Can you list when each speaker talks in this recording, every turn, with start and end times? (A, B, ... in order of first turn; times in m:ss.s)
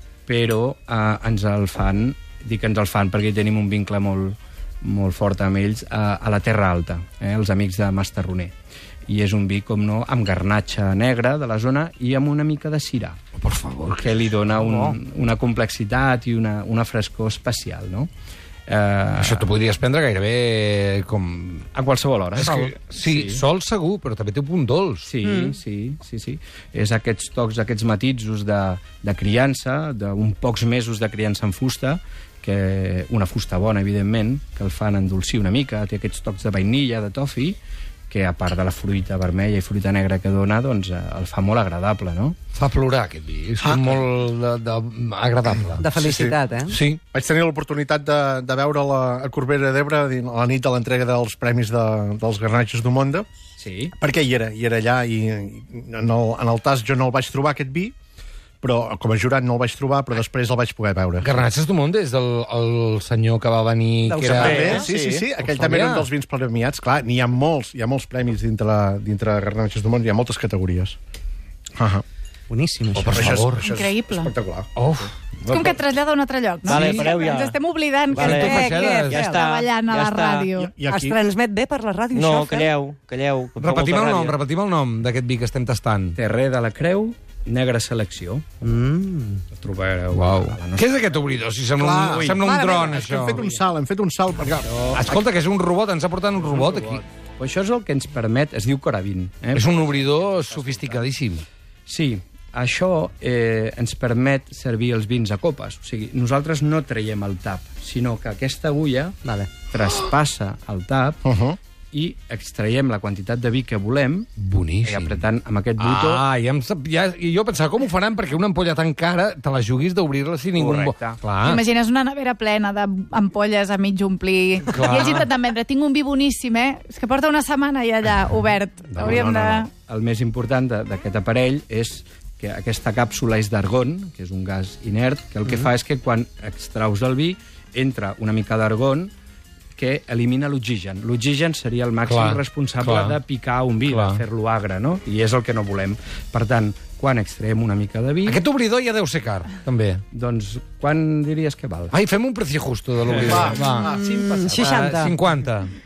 0:00.3-0:08.5 A
0:09.1-0:13.2 A
0:13.4-0:14.2 B
0:14.0-0:18.1 A
0:18.7-0:19.5 A
0:19.2-0:21.7 B
0:21.7-0:23.4 A
0:22.3-0:25.1 B
0:25.0-0:37.6 A
0:25.2-0:25.5 C
0:38.1-0:42.4 A
0:42.5-0:47.0 B
0:43.6-0:44.0 D
0:45.8-0:46.8 C
0:46.0-0:46.4 D
0:47.1-0:53.3 D
0:53.6-0:53.9 A
0:54.0-0:57.9 D
0:58.6-1:01.4 D
1:01.2-1:04.8 B
1:04.0-1:04.8 C
1:04.2-1:11.0 D
1:04.3-1:05.3 E
1:05.4-1:06.1 B
1:11.8-1:12.0 D
1:12.5-1:13.4 C
1:12.9-1:13.6 B
1:13.1-1:14.7 D
1:13.5-1:14.3 F
1:14.8-1:15.1 B
1:15.4-1:20.8 F
1:15.5-1:15.8 E
1:16.7-1:17.5 E
1:16.7-1:17.1 B
1:18.1-1:20.5 E
1:18.2-1:19.5 C
1:18.3-1:19.3 B
1:20.5-1:21.2 D
1:20.8-1:22.7 C
1:22.1-1:24.4 E
1:23.6-1:26.2 B
1:26.1-1:28.4 A
1:28.6-1:29.4 C
1:29.6-1:31.2 A
1:30.1-1:33.4 B
1:31.8-1:34.7 D
1:32.0-1:32.4 A
1:32.4-1:33.4 C
1:34.6-1:35.1 A
1:35.0-1:37.0 B
1:36.4-1:37.0 D
1:37.4-1:41.1 A
1:39.5-1:41.4 B
1:41.9-1:51.2 A
1:51.2-1:51.6 D
1:51.9-1:54.3 A
1:54.4-1:55.2 B
1:54.8-1:56.2 A
1:55.8-2:01.6 B
2:00.5-2:01.2 A
2:01.4-2:09.7 F
2:04.7-2:05.3 B
2:08.9-2:09.6 D
2:09.8-2:19.1 A
2:19.8-2:28.4 A
2:22.0-2:23.2 B
2:23.8-2:24.2 B
2:28.2-2:30.0 B
2:30.1-2:31.9 A
2:31.9-2:33.9 B
2:33.0-2:35.1 A
2:33.2-2:34.0 D
2:33.8-2:35.1 C
2:34.5-2:35.7 B